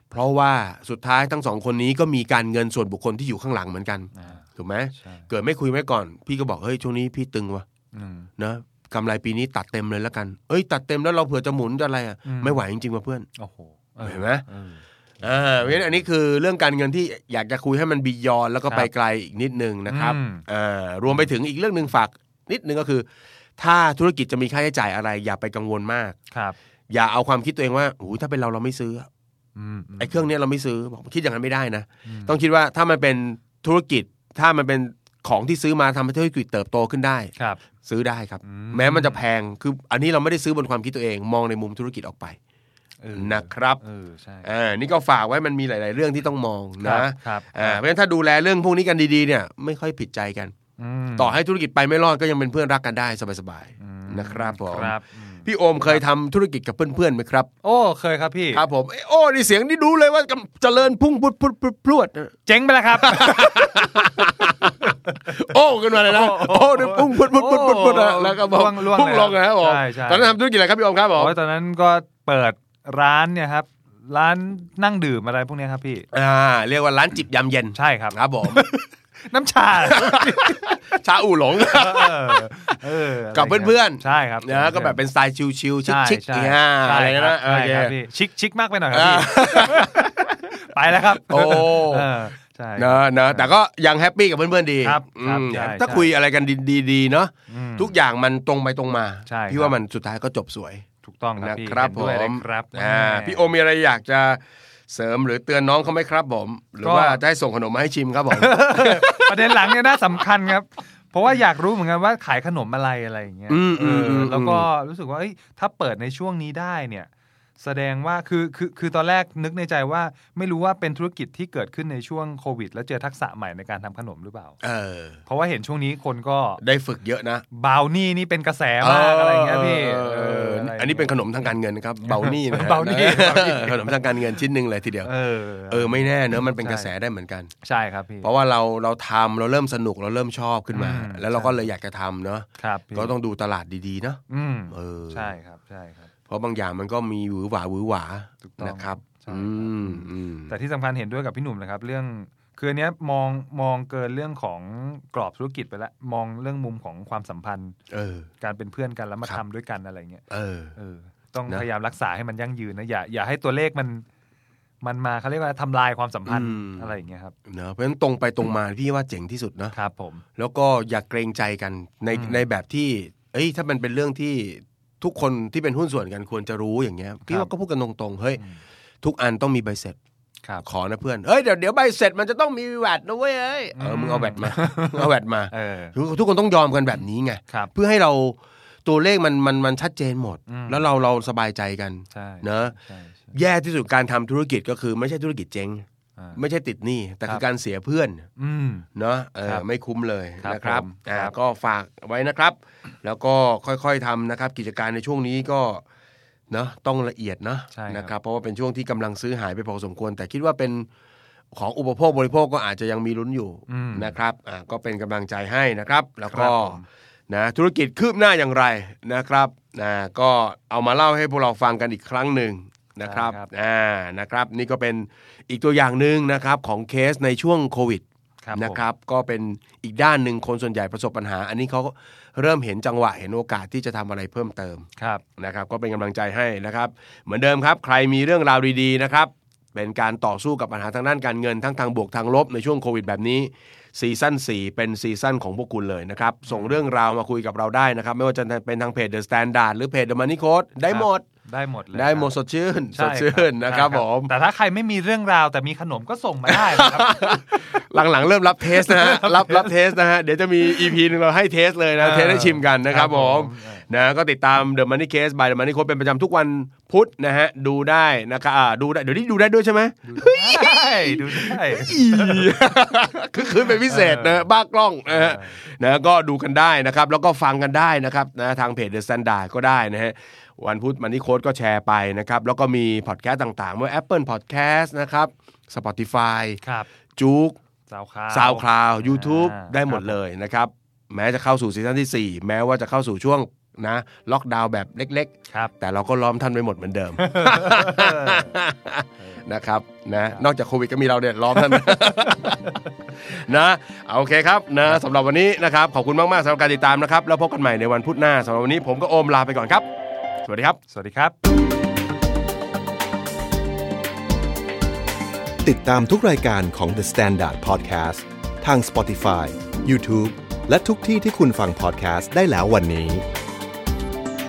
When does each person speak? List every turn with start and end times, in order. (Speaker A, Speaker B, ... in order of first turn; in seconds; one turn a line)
Speaker A: 0.1-7.7
Speaker B: 4.1-4.4
Speaker B: 5.0-5.3
Speaker B: 7.9-8.3
Speaker A: 8.4-13.3
Speaker B: 12.2-12.6
Speaker B: 13.4-14.8
Speaker A: 14.0-14.4
Speaker A: 15.2-23.1
Speaker B: 19.9-20.4
Speaker A: 23.6-26.2
Speaker B: 26.3-26.6
Speaker A: 26.9-29.1
Speaker B: 29.6-30.3
Speaker A: 30.0-37.3
Speaker B: 32.1-32.4
Speaker B: 37.4-37.6
Speaker A: 37.8-42.4
Speaker B: 38.4-39.2
Speaker B: 43.0-44.5
Speaker A: 43.1-43.8
Speaker A: 44.4-50.5
Speaker B: 46.8-47.8
Speaker B: 50.8-51.3
Speaker A: 51.1-57.5
Speaker B: 53.8-56.0
Speaker B: 57.6-58.6
Speaker A: 58.5-62.3
Speaker B: 62.5-65.3
Speaker A: 62.9-71.4
Speaker B: 66.0-70.4
Speaker B: 71.2-76.1
Speaker A: 76.1-78.7
Speaker B: 77.8-80.7
Speaker A: 79.8-82.5
Speaker B: 81.6-85.0
Speaker A: 83.3-88.0
Speaker B: 85.9-93.5
Speaker A: 88.9-90.1
Speaker A: 91.0-92.2
Speaker A: 92.8-100.8
Speaker B: 94.8-96.1
Speaker B: 97.5-97.9
Speaker B: 99.3-99.8
Speaker B: 101.0-103.5
Speaker A: 101.4-109.8
Speaker B: 106.8-107.2
Speaker B: 108.3-124.6
Speaker A: 113.5-114.7
Speaker A: 124.6-125.2
Speaker B: 125.3-126.6
Speaker A: 126.6-127.5
Speaker B: 127.5-131.2
Speaker A: 128.8-135.1
Speaker B: 132.0-134.0
Speaker B: 135.0-136.9
Speaker A: 135.7-137.5
Speaker B: 137.6-138.3
Speaker A: 138.2-145.4
Speaker B: 140.7-141.6
Speaker B: 142.6-143.1
Speaker B: 144.3-146.1
Speaker A: 146.3-150.5
Speaker B: 148.4-157.8
Speaker A: 157.9-158.3
Speaker B: 158.4-160.2
Speaker A: 160.3-160.7
Speaker B: 160.8-164.1
Speaker B: 164.8-167.3
Speaker A: 166.3-169.8
Speaker B: 169.7-170.2
Speaker A: 170.4-178.4
Speaker B: 172.1-172.4
Speaker A: 179.0-180.0
Speaker A: 180.6-192.8
Speaker B: 183.7-185.9
Speaker B: 190.5-190.9
Speaker B: 192.1-193.3
Speaker A: 193.3-198.3
Speaker B: 198.4-198.9
Speaker A: 199.0-205.8
Speaker B: 200.4-201.3
Speaker A: 206.5-210.9
Speaker B: 207.7-208.1
Speaker A: 211.5-234.9
Speaker B: 213.7-214.2
Speaker B: 216.3-216.8
Speaker B: 223.0-223.5
Speaker B: 228.4-228.8
Speaker B: 235.0-235.2
Speaker A: 235.4-251.2
Speaker B: 246.5-246.8
Speaker B: 250.9-252.3
Speaker A: 251.9-254.3
Speaker B: 252.9-257.2
Speaker A: 256.5-286.6
Speaker B: 258.7-259.7
Speaker B: 262.0-263.9
Speaker B: 270.1-272.6
Speaker B: 273.6-274.5
Speaker B: 275.1-275.6
Speaker B: 286.6-286.9
Speaker A: 287.2-287.6
Speaker B: 287.9-290.2
Speaker A: 288.3-302.7
Speaker B: 297.2-298.5
Speaker A: 303.3-309.9
Speaker A: 310.4-310.8
Speaker B: 310.9-311.4
Speaker C: 315.6-323.2